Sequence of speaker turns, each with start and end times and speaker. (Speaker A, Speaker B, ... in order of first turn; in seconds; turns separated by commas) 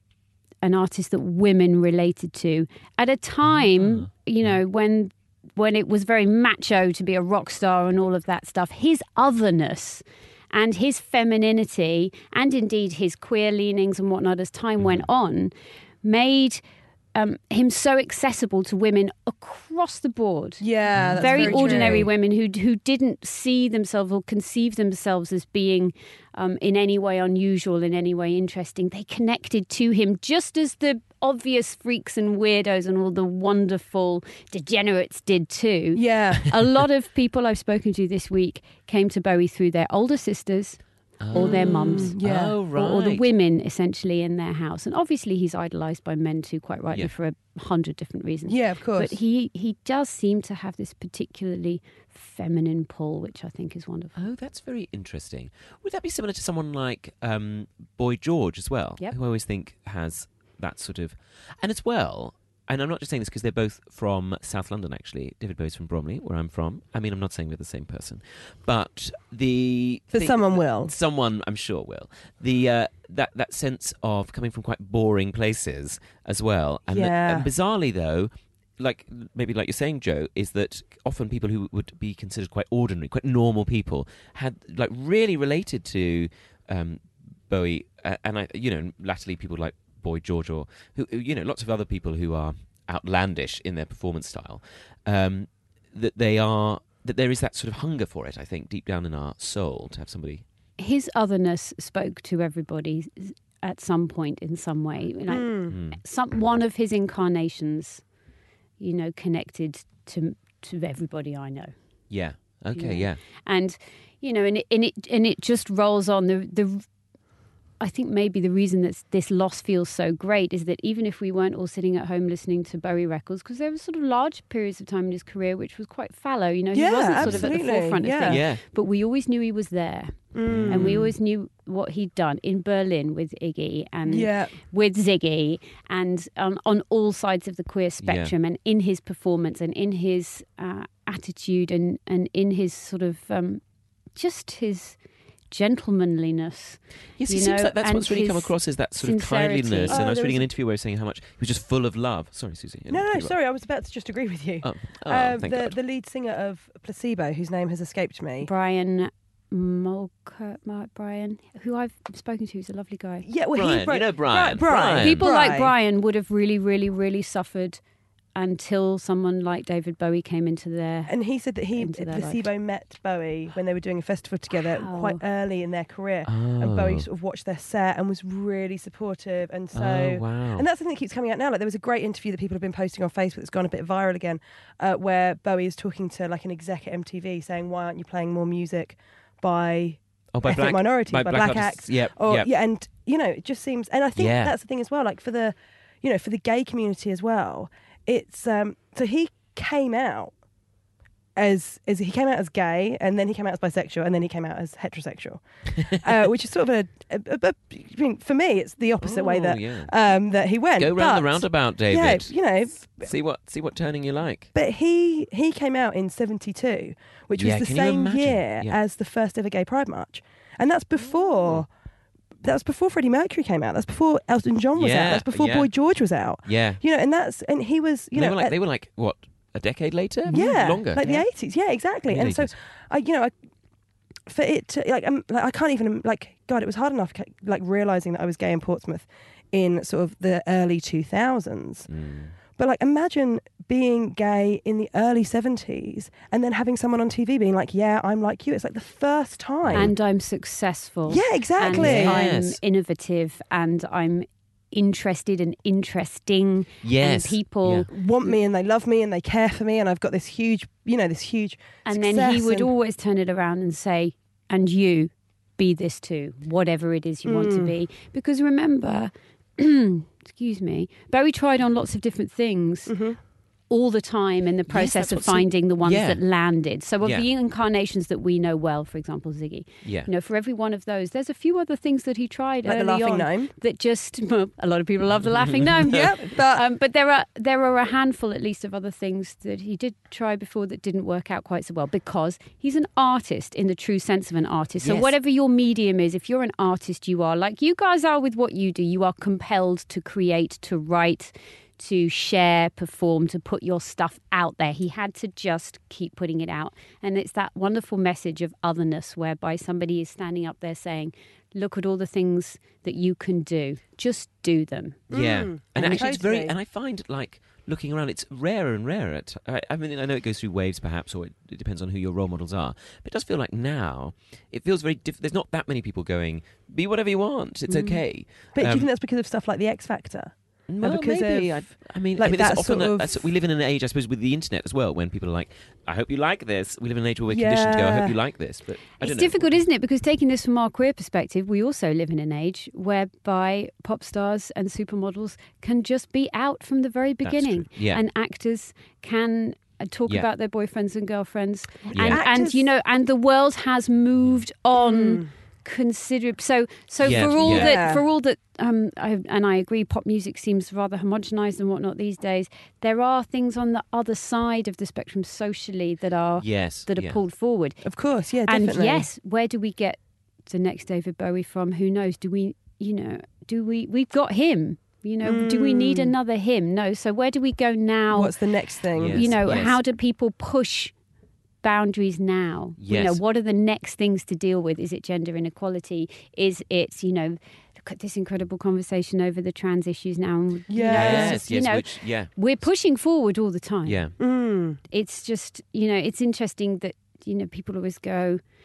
Speaker A: 0.6-15.5, Speaker B: 14.8-15.1, Speaker A: 16.0-16.6, Speaker A: 17.1-20.6, Speaker C: 20.6-22.1, Speaker B: 20.9-22.0, Speaker A: 21.1-40.8, Speaker C: 35.9-36.5, Speaker B: 41.2-43.3, Speaker A: 41.3-42.2, Speaker C: 41.4-42.6, Speaker A: 42.7-54.3, Speaker C: 48.5-49.1, Speaker B: 54.2-100.4, Speaker C: 70.1-70.9, Speaker C: 76.9-77.5, Speaker A: 100.8-108.0, Speaker C: 105.3-105.8, Speaker B: 105.7-106.0, Speaker A: 108.8-111.7, Speaker B: 112.1-113.2, Speaker A: 112.8-116.9, Speaker A: 117.8-143.6, Speaker C: 126.7-128.4, Speaker B: 127.2-127.5, Speaker B: 128.3-128.6, Speaker C: 130.3-131.1, Speaker B: 130.5-131.1, Speaker C: 134.1-134.6, Speaker B: 138.0-138.3, Speaker A: 144.2-145.0, Speaker A: 145.5-150.0, Speaker B: 147.2-153.3, Speaker C: 149.9-150.5, Speaker C: 152.9-158.5, Speaker B: 154.6-155.8, Speaker A: 158.4-163.3, Speaker C: 163.2-165.7, Speaker B: 163.5-165.3, Speaker A: 164.9-167.8, Speaker A: 168.4-171.1, Speaker C: 171.1-200.3, Speaker A: 171.8-172.5, Speaker A: 174.6-175.2, Speaker B: 176.3-177.1, Speaker B: 179.7-180.7, Speaker B: 190.3-192.5, Speaker B: 194.2-194.6, Speaker C: 201.4-213.1, Speaker B: 209.0-209.9, Speaker B: 210.8-212.3, Speaker B: 212.9-214.5, Speaker C: 214.6-221.7, Speaker B: 217.4-218.8, Speaker C: 222.4-228.6, Speaker B: 224.7-225.7, Speaker B: 226.4-226.8, Speaker B: 228.1-231.2, Speaker C: 230.3-233.3, Speaker A: 230.3-231.2, Speaker B: 232.1-232.5, Speaker C: 234.3-241.9, Speaker B: 241.9-242.3, Speaker C: 242.6-249.9, Speaker B: 249.6-249.9, Speaker A: 249.7-257.9, Speaker C: 251.1-252.2, Speaker B: 251.7-252.6, Speaker B: 256.8-257.9, Speaker C: 257.9-262.7, Speaker A: 261.9-272.9, Speaker C: 267.3-267.7, Speaker C: 272.9-273.2, Speaker A: 273.7-315.1, Speaker B: 274.7-276.2, Speaker B: 279.8-280.1, Speaker C: 282.6-283.5, Speaker B: 285.2-286.1, Speaker C: 285.9-286.6, Speaker B: 294.8-295.1, Speaker C: 315.1-316.6, Speaker B: 315.1-328.9, Speaker A: 315.8-316.1, Speaker C: 327.7-328.0, Speaker C: 328.6-333.3, Speaker B: 330.7-339.6, Speaker C: 337.3-338.2, Speaker A: 339.0-367.8, Speaker B: 347.2-348.0, Speaker B: 351.9-352.3, Speaker C: 351.9-352.6, Speaker C: 354.8-355.3, Speaker B: 357.0-357.8, Speaker C: 357.4-358.1, Speaker B: 366.4-367.2, Speaker C: 367.8-369.1, Speaker A: 368.4-378.4, Speaker C: 375.2-376.1, Speaker C: 378.1-379.6, Speaker B: 378.9-379.8, Speaker A: 379.0-380.9, Speaker A: 381.6-394.1, Speaker B: 382.8-383.2, Speaker C: 390.7-391.4, Speaker B: 390.8-392.3, Speaker B: 393.8-394.1, Speaker C: 394.2-394.8, Speaker A: 394.9-398.4